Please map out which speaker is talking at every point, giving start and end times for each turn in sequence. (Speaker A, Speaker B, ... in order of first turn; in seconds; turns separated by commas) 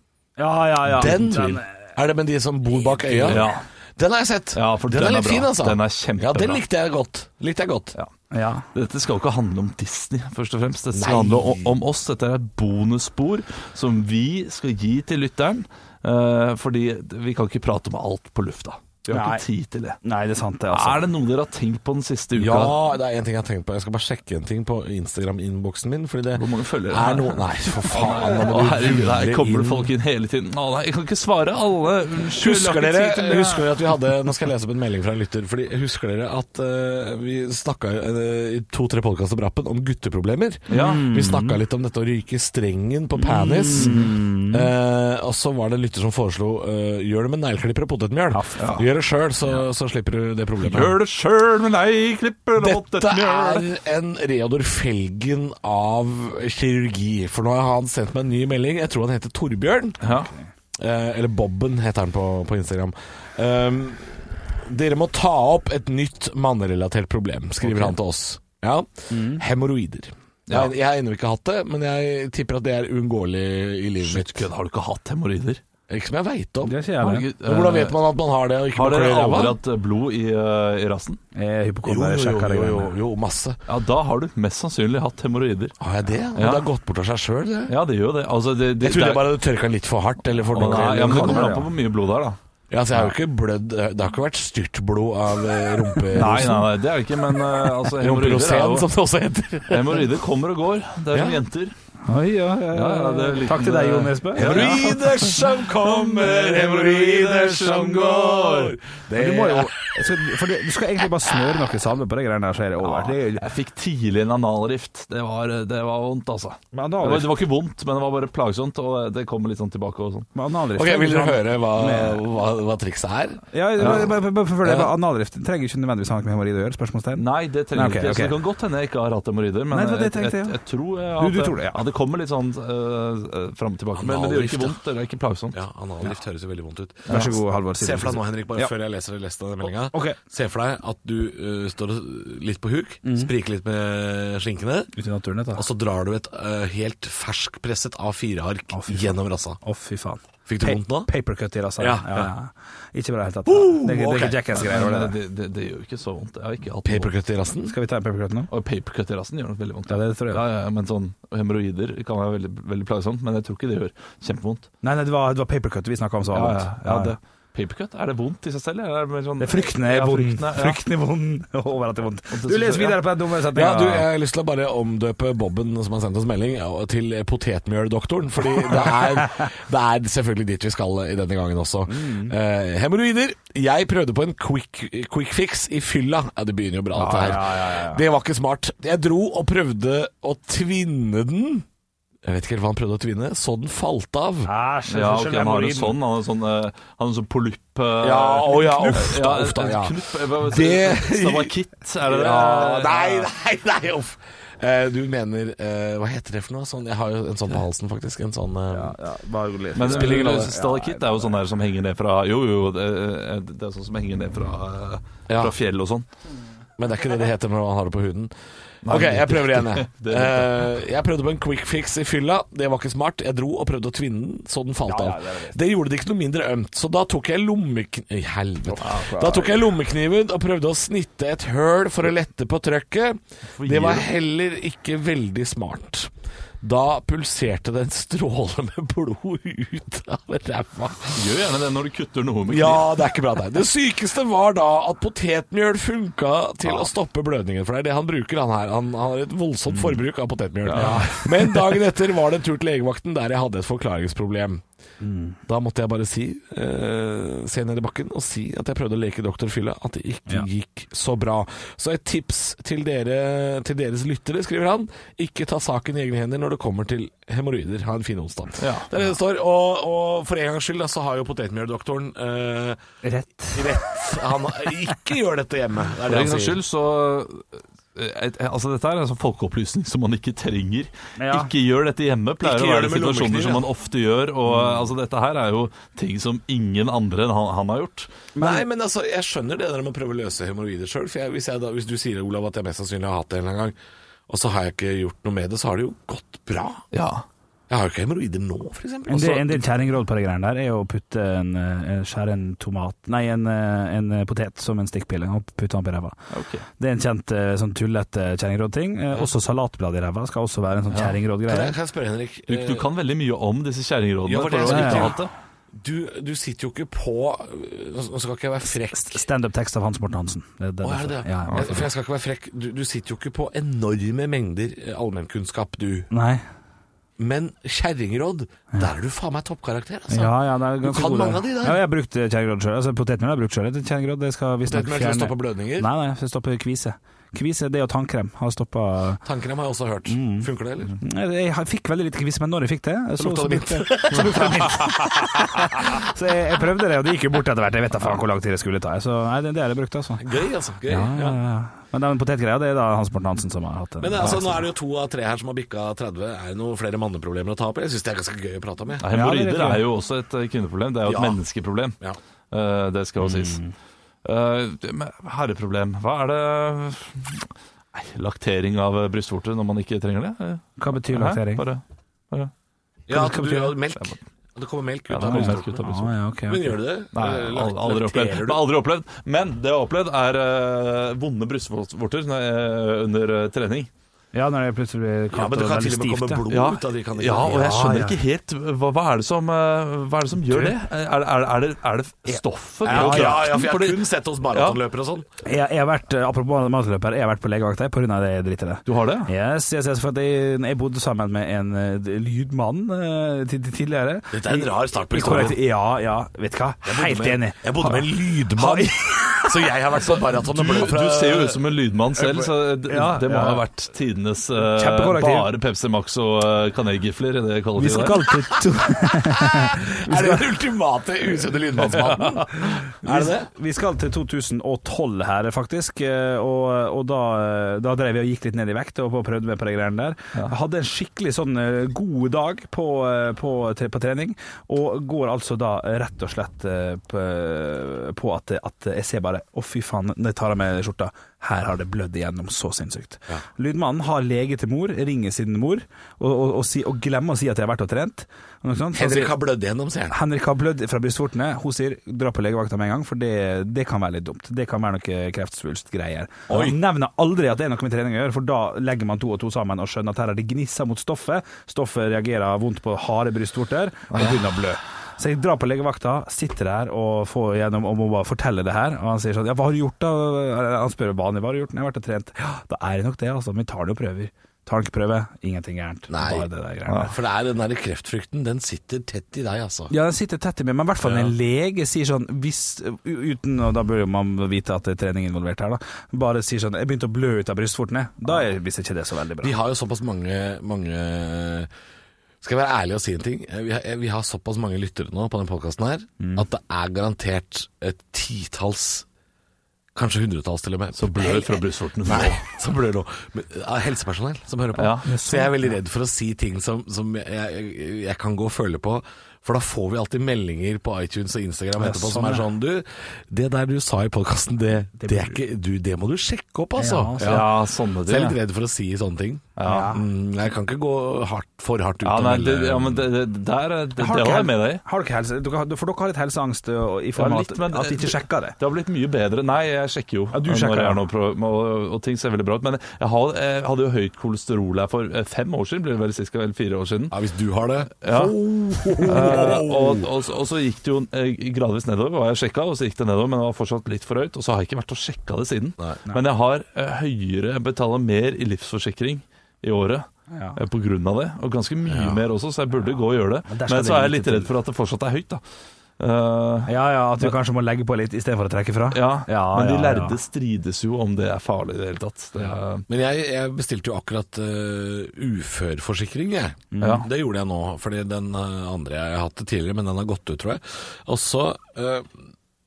Speaker A: 0.4-1.7, Speaker B: 0.8-8.0, Speaker C: 3.2-3.6, Speaker C: 4.5-6.6, Speaker A: 8.3-8.7, Speaker C: 8.7-20.0, Speaker B: 10.9-11.7, Speaker A: 19.1-19.4, Speaker A: 20.0-21.0, Speaker C: 20.7-22.8, Speaker B: 22.4-29.9, Speaker C: 26.3-33.8, Speaker B: 32.2-51.0, Speaker A: 40.7-41.6, Speaker C: 40.7-41.0, Speaker A: 43.3-44.7, Speaker C: 43.7-44.1, Speaker A: 48.3-48.8, Speaker C: 50.6-53.7, Speaker B: 52.6-60.0, Speaker C: 60.0-60.3, Speaker A: 60.1-60.5, Speaker B: 60.8-74.5, Speaker A: 69.1-69.4, Speaker C: 74.0-75.6, Speaker B: 75.9-76.8, Speaker A: 76.7-77.3, Speaker C: 77.0-78.0, Speaker B: 77.3-79.6, Speaker C: 78.7-81.2, Speaker A: 81.3-82.9, Speaker B: 81.8-83.6, Speaker C: 83.7-85.7, Speaker B: 85.8-87.8, Speaker C: 86.4-86.7, Speaker C: 87.7-89.3, Speaker B: 88.8-91.6, Speaker C: 90.5-92.4, Speaker A: 90.5-91.7, Speaker B: 92.7-96.7, Speaker C: 96.1-98.9, Speaker A: 96.1-96.7, Speaker B: 97.3-100.1, Speaker C: 99.7-101.7, Speaker B: 101.1-101.4, Speaker A: 102.1-105.1, Speaker C: 102.7-108.8, Speaker B: 104.4-109.8, Speaker A: 109.1-113.5, Speaker C: 112.8-120.3, Speaker A: 116.7-117.3, Speaker A: 120.3-122.2, Speaker B: 120.8-124.9, Speaker A: 123.5-128.3, Speaker C: 123.8-124.1, Speaker C: 127.2-135.6, Speaker A: 129.7-130.6, Speaker A: 131.2-131.8, Speaker B: 134.0-134.8, Speaker B: 135.5-144.9, Speaker C: 137.1-137.4, Speaker A: 137.1-138.7, Speaker A: 139.9-140.2, Speaker A: 143.0-143.3, Speaker A: 144.9-145.6, Speaker B: 145.6-149.6, Speaker A: 148.7-155.2, Speaker B: 150.5-151.1, Speaker B: 151.8-152.3, Speaker B: 153.5-154.4, Speaker C: 154.6-157.1, Speaker B: 156.8-157.8, Speaker A: 157.7-158.5, Speaker C: 158.5-164.7, Speaker A: 159.9-160.4, Speaker A: 164.8-167.2, Speaker C: 166.3-170.8, Speaker A: 169.4-174.1, Speaker C: 172.3-173.1, Speaker B: 173.5-191.7, Speaker A: 178.9-179.4, Speaker A: 181.9-182.3, Speaker C: 186.9-187.4, Speaker A: 187.1-188.0, Speaker B: 192.2-194.5, Speaker A: 194.4-196.0, Speaker C: 194.9-203.3, Speaker B: 198.0-201.5, Speaker B: 202.1-208.9, Speaker A: 202.2-202.9, Speaker A: 208.7-211.3, Speaker C: 209.8-216.1, Speaker B: 209.8-210.5, Speaker B: 215.3-215.6, Speaker B: 216.8-218.3, Speaker C: 218.8-220.7, Speaker B: 218.8-241.2, Speaker A: 224.9-225.6, Speaker A: 228.7-229.5, Speaker C: 233.6-234.1, Speaker C: 241.1-242.9, Speaker B: 242.5-254.6, Speaker C: 250.7-251.1, Speaker A: 250.7-251.6, Speaker A: 255.0-255.4, Speaker B: 255.5-272.8, Speaker C: 268.6-268.9, Speaker A: 273.0-273.9, Speaker B: 273.5-276.6, Speaker C: 276.1-288.1, Speaker A: 281.2-281.5, Speaker B: 282.4-283.7, Speaker A: 288.4-288.6, Speaker B: 288.4-293.8, Speaker B: 294.3-296.8, Speaker C: 296.9-297.2, Speaker B: 297.7-299.6, Speaker A: 299.1-306.2, Speaker C: 306.3-306.7, Speaker A: 306.8-311.8, Speaker C: 310.9-311.2, Speaker B: 311.5-312.9, Speaker C: 312.5-315.3, Speaker B: 314.2-315.2, Speaker A: 314.6-315.1, Speaker B: 315.8-319.2, Speaker A: 318.9-321.8, Speaker B: 320.8-326.1, Speaker C: 321.5-321.7, Speaker A: 326.1-326.4, Speaker B: 327.2-331.8, Speaker A: 330.1-339.2, Speaker B: 334.7-335.9, Speaker B: 339.2-340.9, Speaker A: 340.1-350.3, Speaker B: 343.2-345.6, Speaker B: 350.2-351.4, Speaker A: 350.9-354.6, Speaker B: 354.0-359.1, Speaker C: 359.0-362.0, Speaker A: 359.1-359.9, Speaker B: 361.1-361.4, Speaker C: 362.5-363.6, Speaker A: 363.2-363.7, Speaker C: 364.2-372.5, Speaker A: 370.8-371.6, Speaker B: 373.1-375.8, Speaker A: 373.1-373.8, Speaker C: 375.1-376.1, Speaker A: 375.2-376.8, Speaker B: 376.5-378.6, Speaker C: 377.1-383.9, Speaker A: 384.3-386.4, Speaker B: 385.3-387.9, Speaker C: 386.5-394.8, Speaker A: 387.4-388.2, Speaker A: 390.5-390.7, Speaker B: 392.9-395.3, Speaker A: 392.9-393.5, Speaker A: 395.4-409.7, Speaker C: 398.9-399.3, Speaker B: 404.3-405.6, Speaker B: 406.8-411.6, Speaker C: 410.2-418.3, Speaker A: 412.2-413.6, Speaker A: 414.6-415.5, Speaker A: 417.8-420.5, Speaker B: 419.5-423.5, Speaker A: 421.9-449.3, Speaker B: 448.9-450.2, Speaker A: 450.1-477.1, Speaker B: 456.5-456.8, Speaker B: 476.1-476.5, Speaker B: 477.1-479.9, Speaker A: 479.9-489.6, Speaker C: 481.0-481.3, Speaker B: 489.4-491.7, Speaker B: 492.4-499.1, Speaker A: 496.2-496.5, Speaker B: 499.9-523.1, Speaker C: 501.0-502.4, Speaker C: 504.7-505.1, Speaker A: 505.0-505.8, Speaker A: 511.8-512.5, Speaker A: 515.0-515.4, Speaker A: 516.8-517.5, Speaker C: 517.2-518.4, Speaker C: 519.6-520.0, Speaker A: 519.6-520.0, Speaker C: 522.0-524.8, Speaker A: 524.0-528.6, Speaker C: 527.2-537.2, Speaker A: 530.3-531.0, Speaker B: 537.1-540.1, Speaker C: 538.0-538.4, Speaker A: 538.8-539.8, Speaker C: 539.0-555.4, Speaker A: 550.3-550.6, Speaker B: 551.9-552.2, Speaker A: 553.5-554.5, Speaker C: 556.0-557.3, Speaker A: 556.7-560.2, Speaker C: 558.9-562.8, Speaker B: 562.4-572.2, Speaker A: 566.7-567.1, Speaker C: 566.8-567.1